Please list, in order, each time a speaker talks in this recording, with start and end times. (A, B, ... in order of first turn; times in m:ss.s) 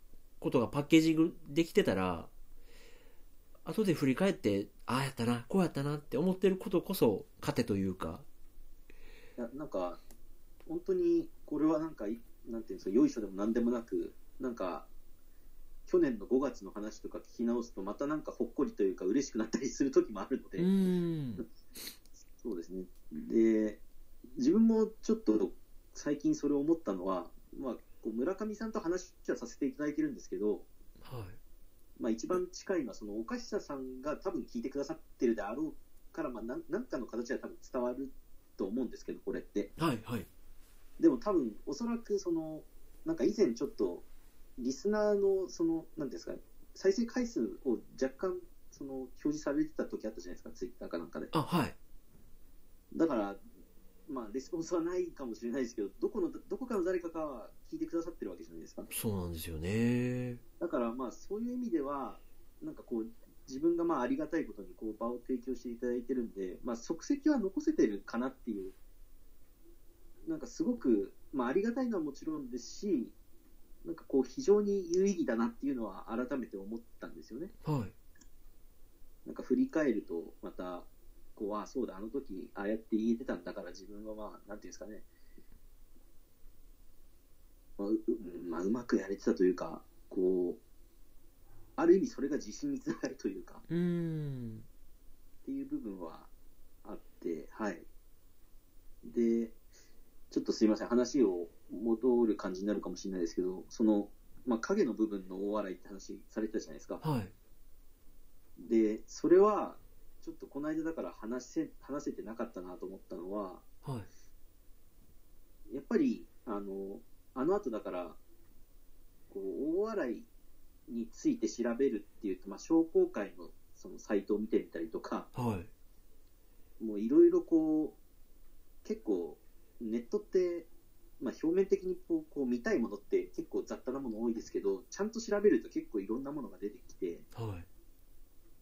0:00.4-0:02.3 A
0:03.6-0:08.3 A
0:09.4-0:10.0 B
0:10.7-0:14.9 B
0:15.9-0:20.7 B
0:20.6-0:21.4 A
0:22.4-0:23.8 B
0:24.4-0:30.7 B
0:31.0-0:31.4 A
0:32.0-0:39.7 B
0:39.8-0:40.3 A
0:41.0-0:44.0 B
0:44.6-0:51.3 B
0:51.3-0:51.8 A
0:52.9-0:53.4 B
0:54.1-0:58.9 B
0:58.9-1:00.4 A
1:00.6-1:08.8 B
1:10.2-1:13.2 B
1:13.8-1:17.5 B
1:17.6-1:17.9 A
1:19.2-1:25.1 B
1:27.8-1:30.6 B
1:31.8-1:33.6 B
1:33.7-1:34.7 A
1:35.4-1:36.3 B
1:36.8-1:37.9 B
1:39.0-1:39.6 B
1:40.3-1:47.0 B
1:47.0-1:47.3 A
1:48.6-1:53.6 B
1:55.7-1:58.2 B
1:59.3-2:00.3 B
2:00.9-2:05.3 B
2:05.4-2:05.7 A
2:06.8-2:08.0 B
2:08.8-2:10.7 B
2:11.2-2:17.3 B
2:17.4-2:17.7 A